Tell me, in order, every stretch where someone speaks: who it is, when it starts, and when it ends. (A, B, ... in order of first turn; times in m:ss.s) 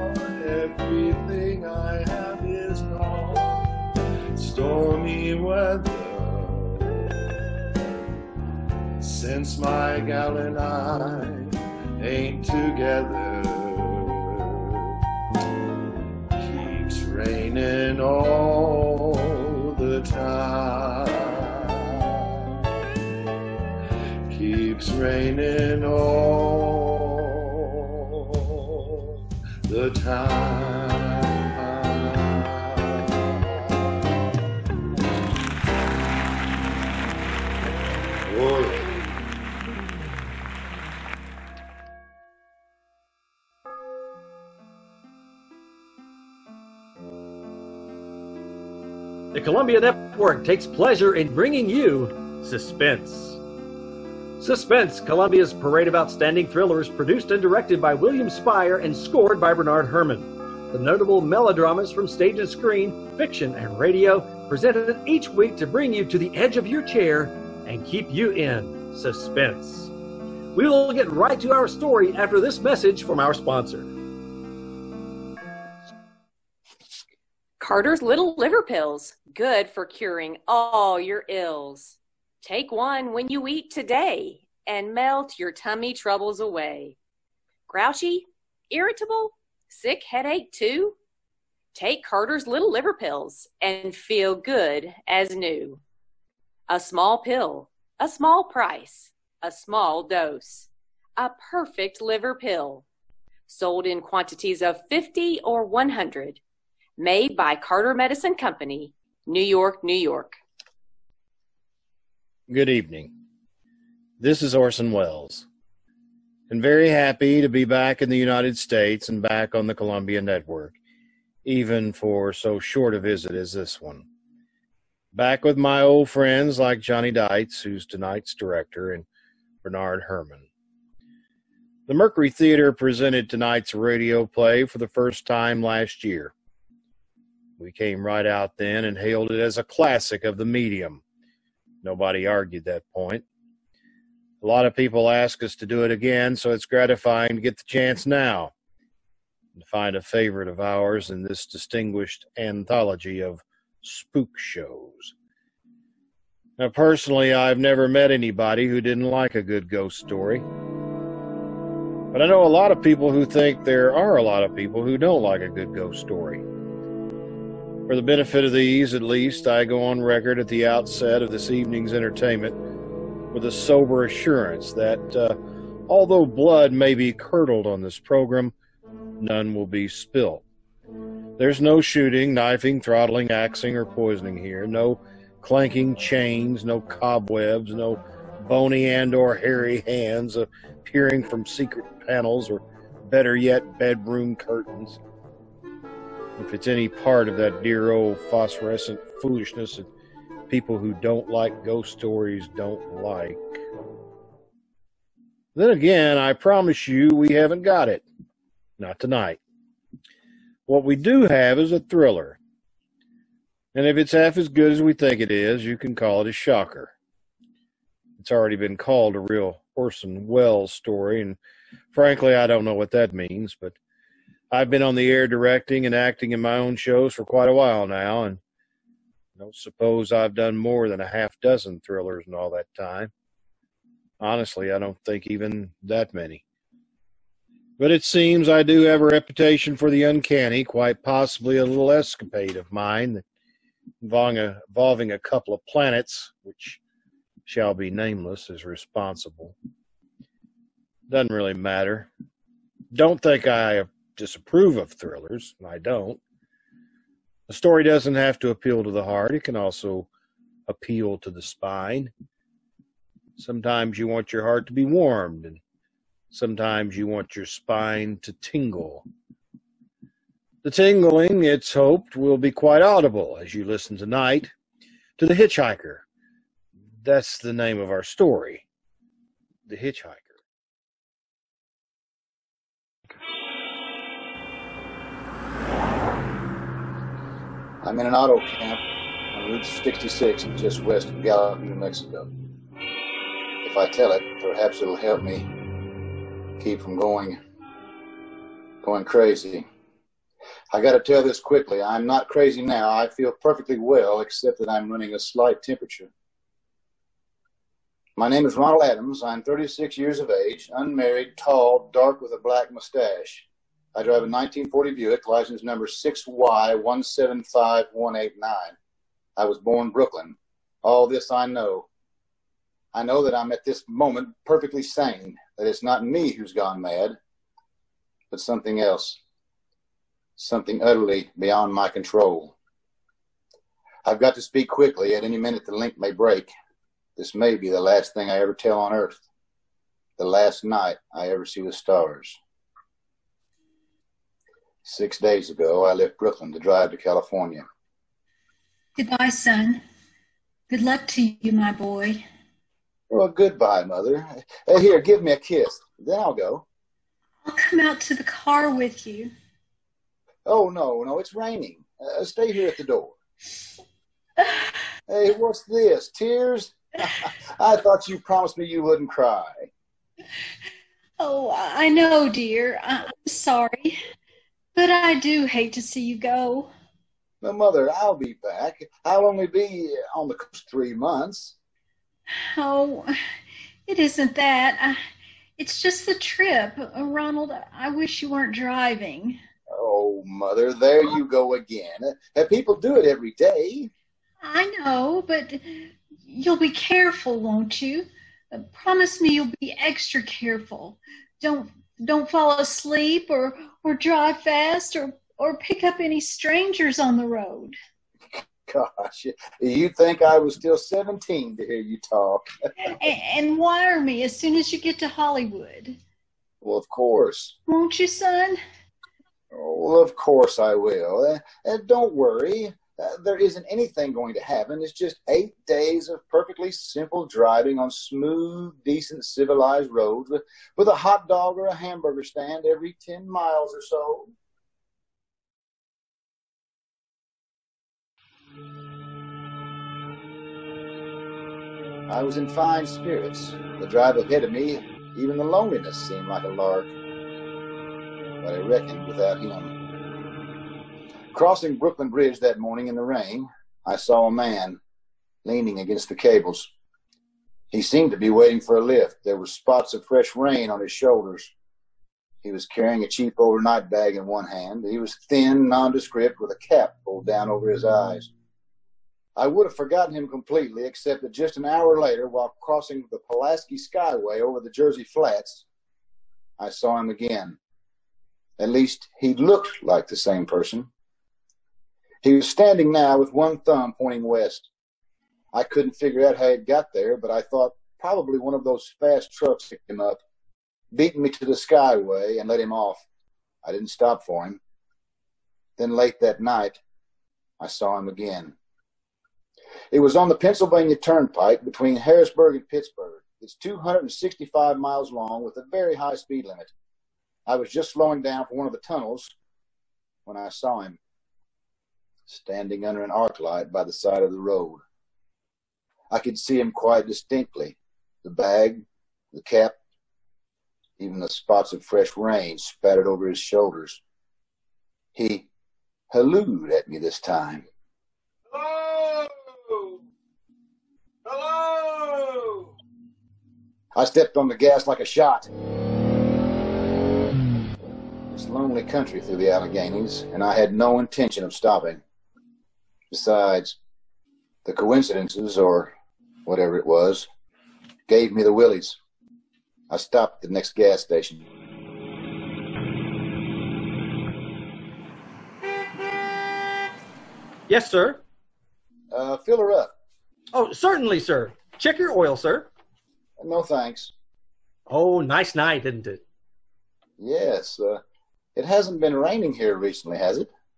0:00.4-0:03.6 A
0:04.4-0:07.1 A
0:09.0-0:14.7 A
0:16.4-0:22.0 A
0:24.3-0:27.3 A
0:29.7-0:33.1 A
0:38.2-0:38.9 A
0:49.3-0:53.4 B
0:54.4-1:09.9 B
1:10.5-1:13.9 B
1:17.6-1:27.0 C
1:27.7-1:31.0 C
1:31.7-1:35.8 C
1:36.7-1:42.8 C
1:43.5-1:46.4 C
1:47.0-1:50.4 C
1:52.5-1:53.1 D
1:54.2-1:55.4 D
1:56.5-2:00.8 D
2:01.4-2:04.1 D
2:05.1-2:09.1 D
2:09.6-2:10.4 D
2:11.9-2:16.3 D
2:17.6-2:21.0 D
2:21.8-2:23.2 D
2:24.4-2:28.5 D
2:29.6-2:35.1 D
2:36.6-2:40.4 D
2:42.1-2:46.4 D
2:47.9-2:52.6 D
2:53.3-2:55.4 D
2:55.9-2:58.5 D
2:59.2-3:00.4 D
3:01.4-3:15.0 D
3:16.4-3:19.9 D
3:20.5-3:23.4 D
3:25.6-3:28.0 D
3:28.8-3:29.4 D
3:30.7-3:32.4 D
3:33.7-3:36.9 D
3:38.2-3:41.4 D
3:41.9-3:43.8 D
3:44.5-3:48.4 D
3:49.4-3:53.1 D
3:54.2-3:56.4 D
3:57.8-4:03.2 D
4:04.0-4:06.8 D
4:07.5-4:09.6 D
4:11.1-4:12.1 D
4:12.9-4:16.2 D
4:17.5-4:20.1 D
4:20.7-4:22.1 D
4:23.4-4:25.6 D
4:26.3-4:29.0 D
4:30.6-4:34.5 D
4:35.2-4:36.0 D
4:37.0-4:38.6 D
4:39.7-4:40.3 D
4:47.8-4:48.8 E
4:49.3-4:52.3 E
4:53.6-4:55.5 E
4:56.6-4:57.4 E
4:58.8-4:59.7 E
5:00.7-5:06.1 E
5:08.2-5:18.8 E
5:19.4-5:21.9 E
5:22.9-5:27.2 E
5:28.3-5:29.2 E
5:30.4-5:32.6 E
5:34.0-5:36.5 E
5:37.2-5:39.2 E
5:40.2-5:42.4 E
5:44.8-5:47.6 E
5:49.0-5:49.8 F
5:50.7-5:52.2 F
5:53.1-5:56.6 E
5:57.5-5:59.3 F
6:00.5-6:03.2 E
6:04.4-6:04.7 F
6:05.1-6:09.7 E
6:11.2-6:14.0 F
6:14.8-6:16.7 F
6:17.4-6:21.6 E
6:22.3-6:23.1 F
6:23.9-6:25.0 F
6:25.6-6:29.4 F
6:29.7-6:33.9 E
6:34.4-6:47.8 F
6:48.3-6:52.5 E
6:52.8-6:56.0 F
6:56.6-6:57.6 E
6:57.7-6:58.6 F
6:59.5-7:14.3 E
7:22.1-7:26.9 E
7:28.4-7:29.7 E
7:31.3-7:34.8 E
7:35.4-7:36.7 E
7:37.7-7:41.5 E
7:42.4-7:48.3 E
7:49.4-7:55.6 E
7:56.6-7:57.6 E
7:58.6-8:00.9 E
8:02.2-8:04.7 E
8:05.5-8:10.2 E
8:10.9-8:13.0 E
8:13.6-8:14.6 E
8:15.8-8:16.8 E
8:17.6-8:18.6 E
8:19.9-8:26.7 E
8:27.5-8:29.3 E
8:30.3-8:31.0 E
8:32.3-8:34.8 E
8:36.1-8:39.8 E
8:41.0-8:44.0 E
8:45.2-8:45.5 E
8:46.1-8:47.7 E
8:48.5-8:49.9 D
8:51.2-8:52.7 D
8:54.0-8:55.5 E
8:58.3-9:02.0 E
9:03.1-9:03.8 E
9:04.6-9:05.9 E
9:06.4-9:07.3 E
9:08.1-9:09.0 E
9:09.9-9:11.4 E
9:17.7-9:18.2 B
9:19.1-9:19.9 E
9:20.5-9:22.7 B
9:23.4-9:24.1 E
9:24.9-9:26.2 B
9:27.2-9:28.0 E
9:28.6-9:30.5 E